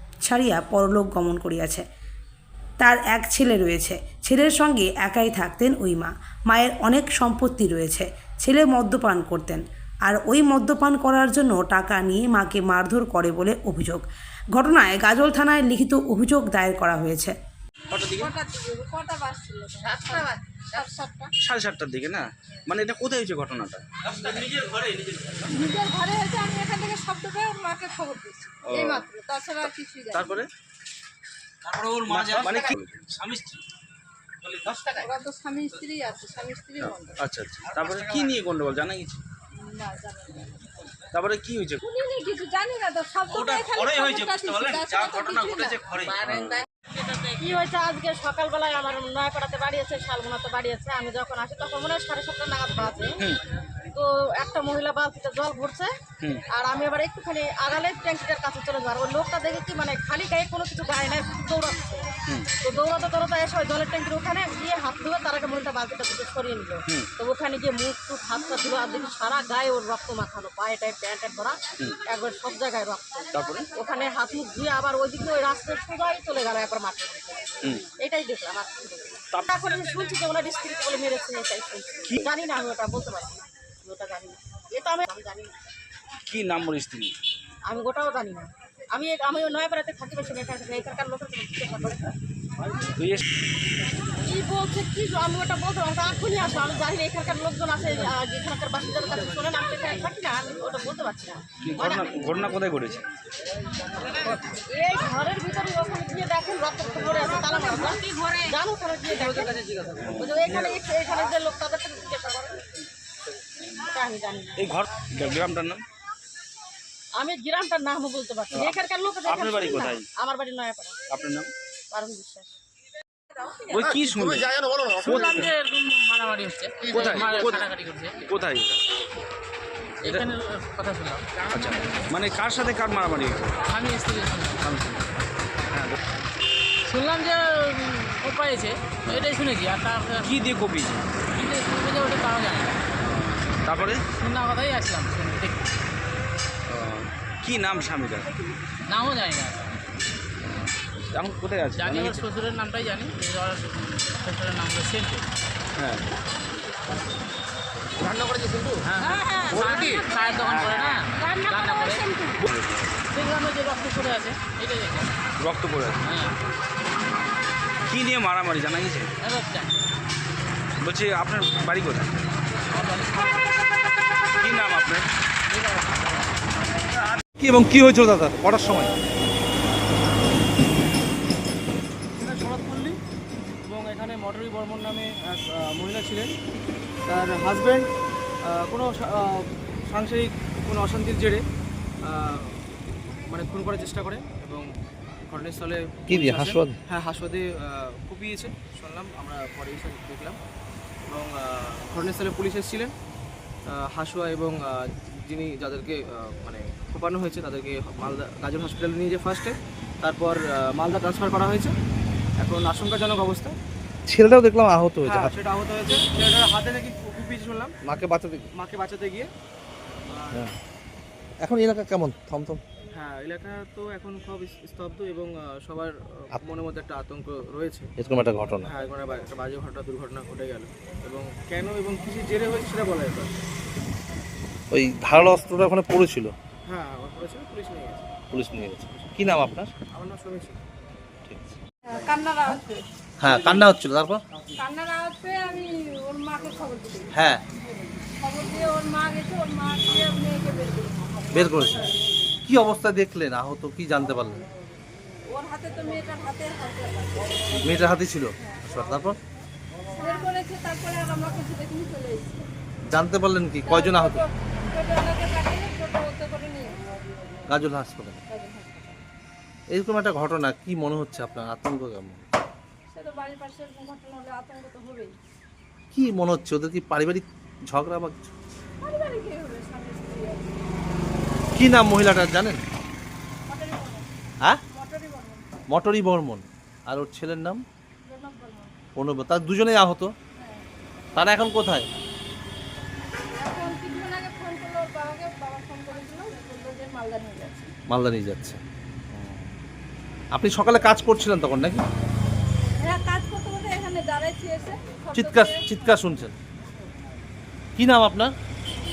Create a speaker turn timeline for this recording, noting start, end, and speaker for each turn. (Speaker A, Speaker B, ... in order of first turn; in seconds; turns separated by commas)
Speaker A: 0.2-1.8, Speaker A: 2.8-17.3, Speaker B: 17.9-18.3, Speaker C: 17.9-21.2, Speaker D: 19.8-21.0, Speaker B: 21.4-24.4, Speaker C: 25.5-30.4, Speaker B: 28.6-30.5, Speaker E: 31.7-32.6, Speaker B: 32.1-33.5, Speaker E: 34.5-35.0, Speaker C: 35.0-37.2, Speaker B: 36.8-39.2, Speaker E: 37.7-38.3, Speaker C: 39.5-40.5, Speaker B: 41.1-41.8, Speaker C: 41.8-46.0, Speaker E: 43.3-46.1, Speaker B: 45.1-46.6, Speaker D: 47.3-53.2, Speaker D: 53.9-55.9, Speaker D: 56.5-62.1, Speaker D: 62.6-85.6, Speaker B: 73.3-73.7, Speaker B: 86.2-87.1, Speaker D: 87.7-92.1, Speaker B: 93.0-93.2, Speaker D: 94.2-101.4, Speaker B: 101.6-103.0, Speaker D: 104.2-112.6, Speaker B: 110.0-110.8, Speaker D: 113.8-114.8, Speaker B: 114.6-115.8, Speaker D: 117.2-121.0, Speaker B: 118.5-120.0, Speaker B: 121.1-121.5, Speaker D: 121.9-122.5, Speaker B: 123.7-125.4, Speaker F: 125.0-128.2, Speaker B: 126.9-127.7, Speaker B: 128.2-128.8, Speaker F: 130.0-131.3, Speaker B: 131.5-133.6, Speaker F: 133.7-134.7, Speaker B: 134.6-135.0, Speaker B: 135.7-136.0, Speaker F: 136.8-140.3, Speaker B: 140.2-141.0, Speaker F: 141.3-142.8, Speaker B: 143.0-144.0, Speaker F: 143.7-145.7, Speaker B: 146.7-148.3, Speaker F: 148.9-149.8, Speaker B: 150.9-152.3, Speaker F: 151.8-155.2, Speaker B: 155.8-156.0, Speaker F: 158.8-162.1, Speaker B: 159.1-159.8, Speaker C: 162.1-162.4, Speaker B: 162.4-162.9, Speaker F: 163.1-165.1, Speaker B: 165.4-166.0, Speaker F: 166.0-166.4, Speaker B: 167.9-169.1, Speaker F: 169.2-169.8, Speaker B: 170.8-172.2, Speaker F: 172.7-173.5, Speaker B: 174.4-175.1, Speaker F: 175.5-176.4, Speaker G: 177.4-178.9, Speaker H: 182.2-183.0, Speaker H: 183.6-186.3, Speaker H: 187.1-187.9, Speaker H: 188.4-191.4, Speaker H: 192.0-192.6, Speaker H: 193.3-194.7, Speaker H: 195.3-200.4, Speaker G: 196.1-196.8, Speaker H: 201.1-202.9, Speaker H: 203.7-211.7, Speaker H: 212.4-213.6, Speaker G: 214.1-215.3, Speaker H: 215.0-217.7, Speaker G: 217.8-218.5, Speaker H: 218.5-219.3, Speaker H: 220.1-220.5, Speaker G: 221.4-222.6, Speaker H: 222.9-227.9, Speaker G: 228.0-228.7, Speaker H: 228.6-233.3, Speaker G: 234.7-236.3, Speaker H: 236.7-238.1, Speaker G: 238.3-239.7, Speaker H: 239.9-240.6, Speaker G: 241.3-241.6, Speaker C: 241.9-242.8, Speaker G: 243.2-244.2, Speaker C: 244.6-247.1, Speaker G: 247.1-247.4, Speaker C: 248.2-251.0, Speaker G: 251.3-251.8, Speaker G: 252.4-254.5, Speaker C: 255.3-257.9, Speaker G: 257.6-259.2, Speaker C: 259.9-262.5, Speaker G: 262.8-264.2, Speaker C: 263.6-266.8, Speaker G: 267.5-268.2, Speaker C: 268.3-269.0, Speaker G: 269.7-272.2, Speaker C: 272.9-275.1, Speaker G: 275.9-278.3, Speaker C: 278.8-280.6, Speaker G: 281.5-282.6, Speaker C: 283.5-284.1, Speaker C: 284.7-285.4, Speaker G: 285.7-287.6, Speaker C: 288.0-288.8, Speaker G: 288.9-290.1, Speaker C: 290.4-290.6, Speaker G: 291.1-291.9, Speaker C: 293.3-297.7, Speaker G: 297.9-298.6, Speaker G: 299.1-299.5, Speaker G: 300.3-301.8, Speaker C: 302.8-305.9, Speaker G: 305.1-306.4, Speaker G: 307.8-308.3